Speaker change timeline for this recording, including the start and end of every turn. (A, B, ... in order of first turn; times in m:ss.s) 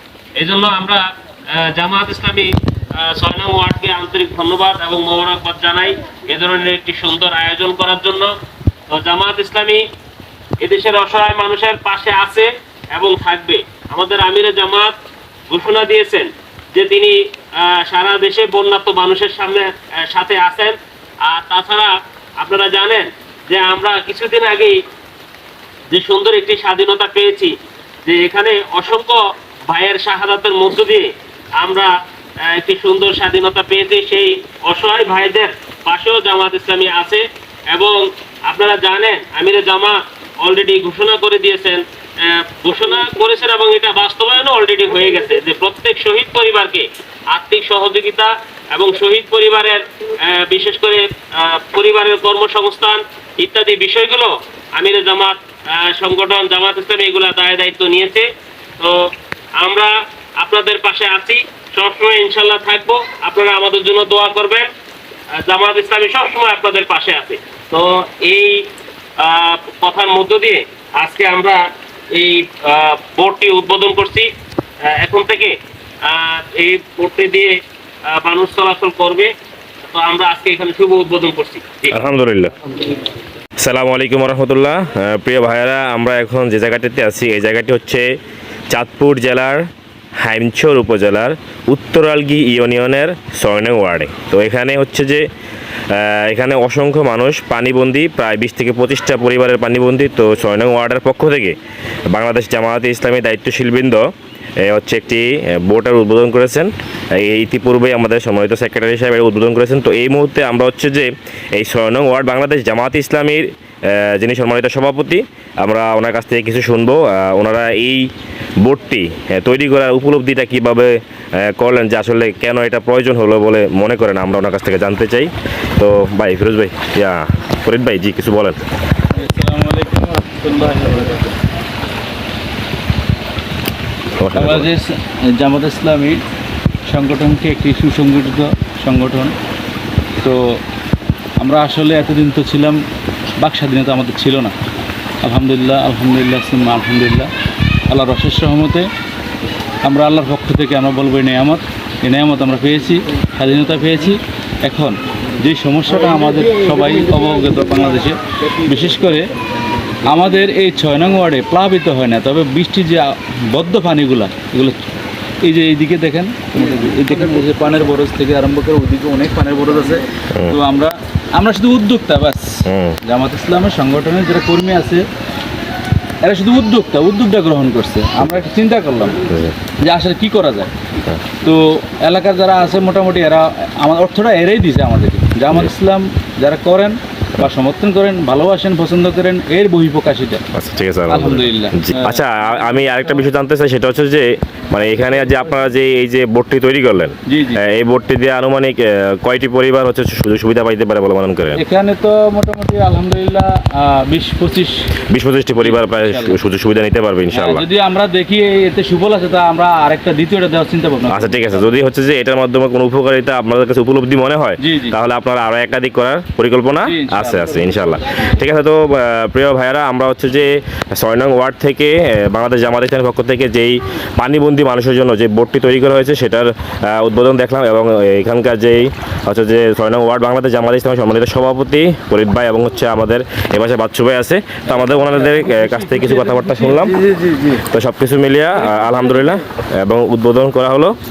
0:00.4-0:08.3 A
0:08.9-0:09.8 A
0:10.6-0:14.9 A
0:15.5-0:24.8 A
0:25.9-0:29.2 A
0:29.7-0:31.1 A
0:31.6-0:31.9 A
0:32.4-0:58.3 A
0:58.8-1:04.7 A
1:05.4-1:11.6 A
1:12.1-1:14.3 A
1:14.9-1:17.6 A
1:18.1-1:19.3 A
1:19.9-1:22.0 A
1:21.9-1:22.5 B
1:23.6-1:28.1 B
1:28.7-1:29.6 B
1:30.2-1:35.3 B
1:35.9-1:41.6 B
1:42.1-1:44.0 B
1:44.6-1:58.1 B
1:58.6-2:08.6 B
2:09.1-2:11.3 C
2:14.2-2:14.7 B
2:14.3-2:16.2 C
2:16.8-2:19.3 C
2:20.2-2:20.6 C
2:21.4-2:22.8 C
2:23.4-2:24.5 C
2:25.2-2:27.3 C
2:27.9-2:28.9 C
2:29.8-2:39.3 C
2:40.1-2:44.8 C
2:45.4-2:55.0 C
2:52.7-2:53.0 B
2:56.2-2:59.2 C
2:59.3-2:59.5 B
2:59.8-3:00.7 C
3:01.4-3:10.4 C
3:10.5-3:21.6 B
3:11.1-3:12.7 C
3:17.3-3:17.6 C
3:21.5-3:24.9 C
3:25.1-3:27.6 B
3:25.6-3:26.4 C
3:27.3-3:31.7 C
3:31.1-3:57.0 B
3:34.6-3:35.0 C
3:36.8-3:38.0 C
3:54.8-3:57.6 C
3:57.6-4:00.9 B
3:58.7-3:59.2 C